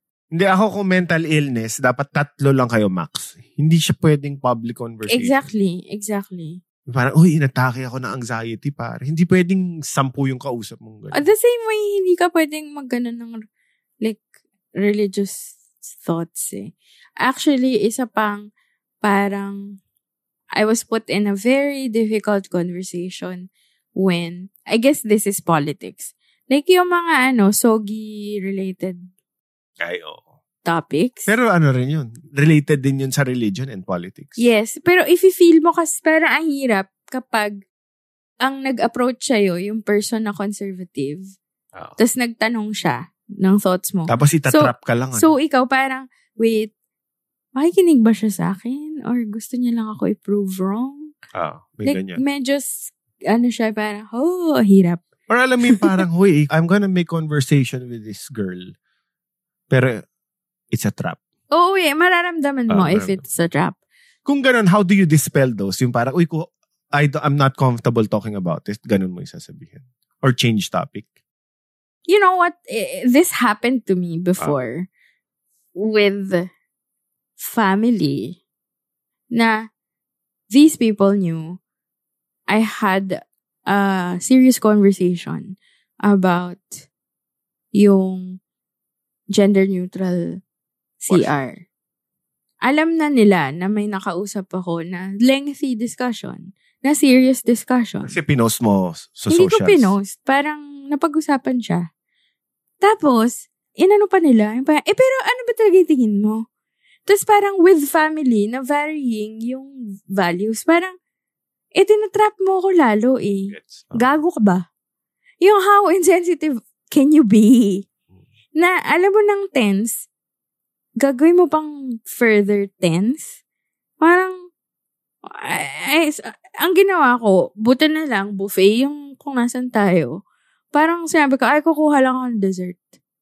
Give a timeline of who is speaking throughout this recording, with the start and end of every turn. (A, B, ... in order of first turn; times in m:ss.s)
0:00.3-0:05.5 A
0:05.1-0:06.6 B
0:06.9-0:11.3 A
0:11.1-0:13.4 B
0:14.8-0:18.4 B
0:19.0-0:19.6 B
0:20.6-0:23.4 B
0:24.0-0:29.0 B
0:29.8-0:30.2 A
0:30.6-0:31.3 B
0:31.3-0:34.4 A
0:34.4-0:37.5 B
0:38.4-0:41.2 B
0:42.0-0:46.7 B
0:44.1-0:45.3 A
0:47.6-0:51.1 B
0:51.3-0:52.2 A
0:51.8-0:55.0 B
0:55.3-0:58.7 A
0:55.6-0:56.0 B
0:59.7-1:00.0 A
1:00.7-1:01.2 A
1:01.5-1:03.8 B
1:02.7-1:03.2 A
1:04.2-1:11.1 A
1:12.1-1:14.9 B
1:15.8-1:16.5 B
1:17.4-1:18.4 B
1:19.3-1:19.6 B
1:20.5-1:21.6 B
1:22.5-1:26.8 B
1:27.7-1:28.4 B
1:29.3-1:30.4 B
1:31.0-1:31.6 B
1:31.1-1:31.3 A
1:32.6-1:38.2 B
1:38.0-1:39.9 A
1:39.3-1:41.9 B
1:42.8-1:46.4 B
1:47.1-1:50.9 B
1:51.8-1:54.6 B
1:53.5-1:54.1 A
1:55.4-1:57.9 B
1:58.6-2:00.0 B
2:01.0-2:03.3 B
2:04.0-2:04.3 B
2:05.3-2:10.2 B
2:10.7-2:12.8 B